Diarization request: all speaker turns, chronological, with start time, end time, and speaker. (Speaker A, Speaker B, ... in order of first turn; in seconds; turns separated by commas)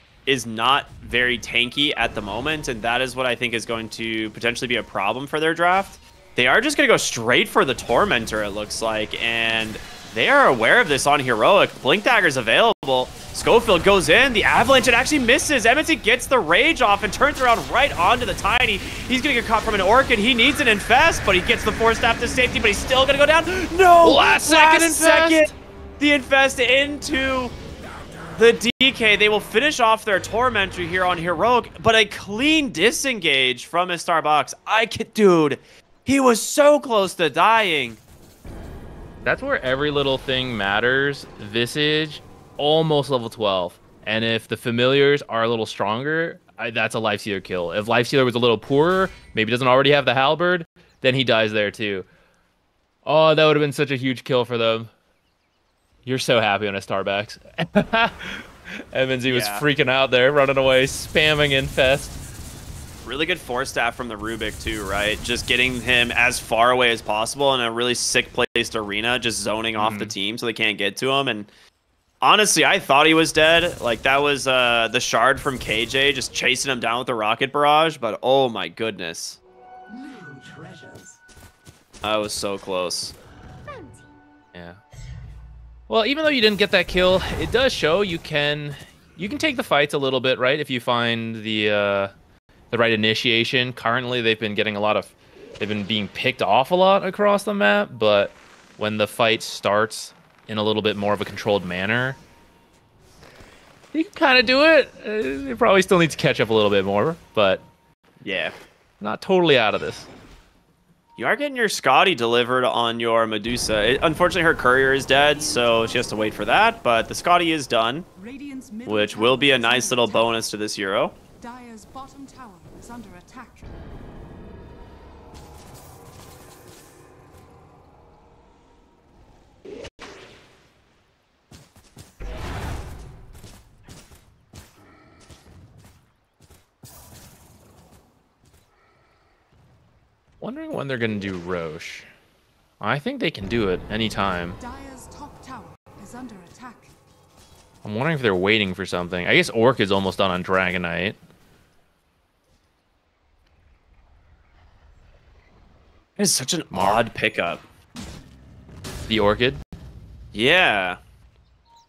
Speaker A: 0.3-27.6, Speaker B: 24.0-25.5, Speaker A: 28.3-38.0, Speaker B: 39.2-52.1, Speaker B: 53.1-54.9, Speaker B: 56.1-62.2, Speaker A: 59.3-59.6, Speaker A: 63.0-71.5, Speaker B: 69.8-70.2, Speaker A: 72.2-79.4, Speaker A: 82.0-83.2, Speaker B: 84.5-84.8, Speaker B: 85.9-92.1, Speaker B: 92.7-102.2, Speaker B: 103.9-107.6, Speaker A: 108.2-108.5, Speaker B: 109.0-110.1, Speaker A: 111.2-118.1, Speaker C: 115.0-116.6, Speaker C: 118.2-120.5, Speaker A: 118.9-121.2, Speaker C: 121.4-123.8, Speaker B: 140.4-142.1, Speaker B: 142.8-144.6, Speaker C: 144.6-146.9, Speaker B: 147.8-151.2, Speaker A: 156.2-157.6, Speaker B: 156.7-157.1, Speaker B: 159.1-159.6, Speaker A: 160.3-161.0